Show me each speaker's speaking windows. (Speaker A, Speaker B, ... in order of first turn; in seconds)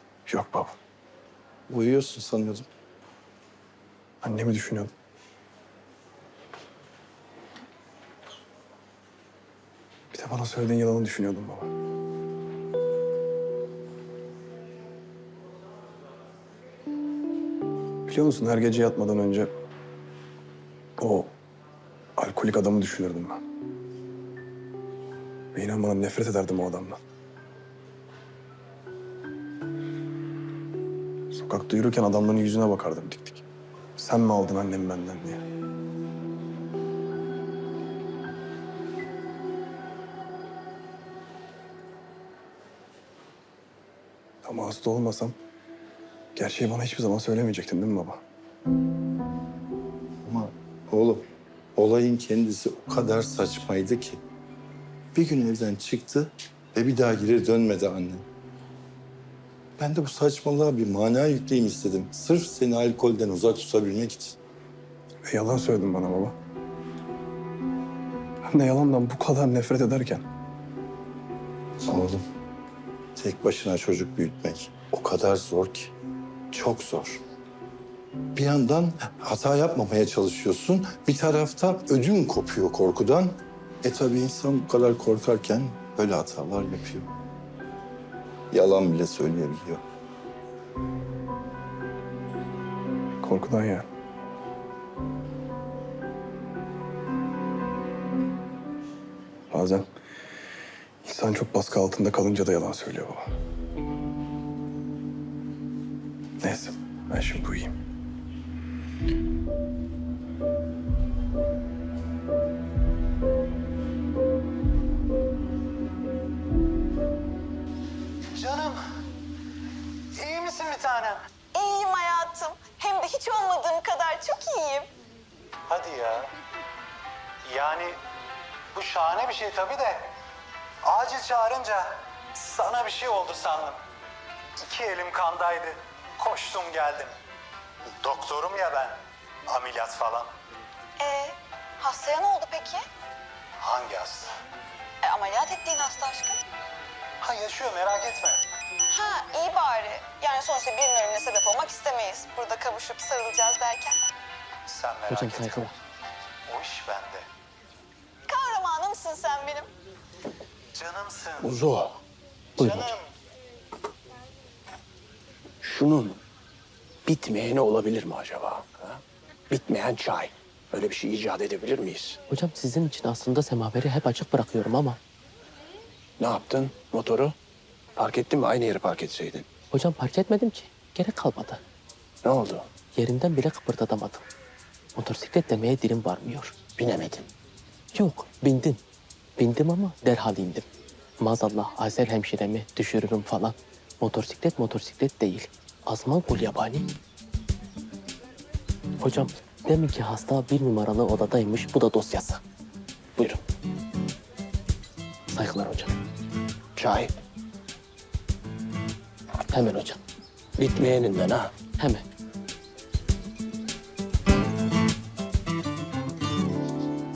Speaker A: 0.3-0.7, 4.2-4.9, 10.1-11.7, 18.1-19.5, 21.0-21.3, 22.2-23.4, 25.5-27.0, 31.3-33.4, 34.0-35.4, 44.4-45.4, 46.4-48.2, 65.2-66.3, 68.5-70.2, 93.2-93.8, 99.5-99.8, 101.0-103.2, 106.4-107.7
Speaker B: 1.7-2.7, 50.2-54.2, 55.1-58.2, 59.8-64.4, 71.8-72.2, 73.2-75.9, 76.5-77.2, 78.3-87.1, 88.5-89.8
Speaker C: 118.3-118.8, 120.1-121.2, 125.7-126.3, 127.4-128.0, 128.7-130.1, 130.8-133.8, 134.6-137.1, 138.0-140.3, 143.6-144.3, 147.2-148.4, 154.7-155.7, 156.5-157.2, 160.7-161.6, 162.7-162.9
Speaker D: 121.5-124.9, 141.0-142.8, 145.0-146.4, 148.9-154.0, 158.3-159.7
Speaker E: 155.1-155.7, 162.6-162.9, 172.3-175.0, 179.7-181.6, 182.9-184.2, 184.9-186.6, 187.9-188.8, 189.4-190.6, 191.2-196.9, 199.0-202.4, 205.3-206.0, 209.5-210.0, 211.8-212.0
Speaker F: 161.4-162.0, 165.6-166.2, 167.0-172.2, 176.2-177.3, 177.9-179.5, 182.2-182.7, 186.8-187.3, 206.8-207.1, 210.6-211.5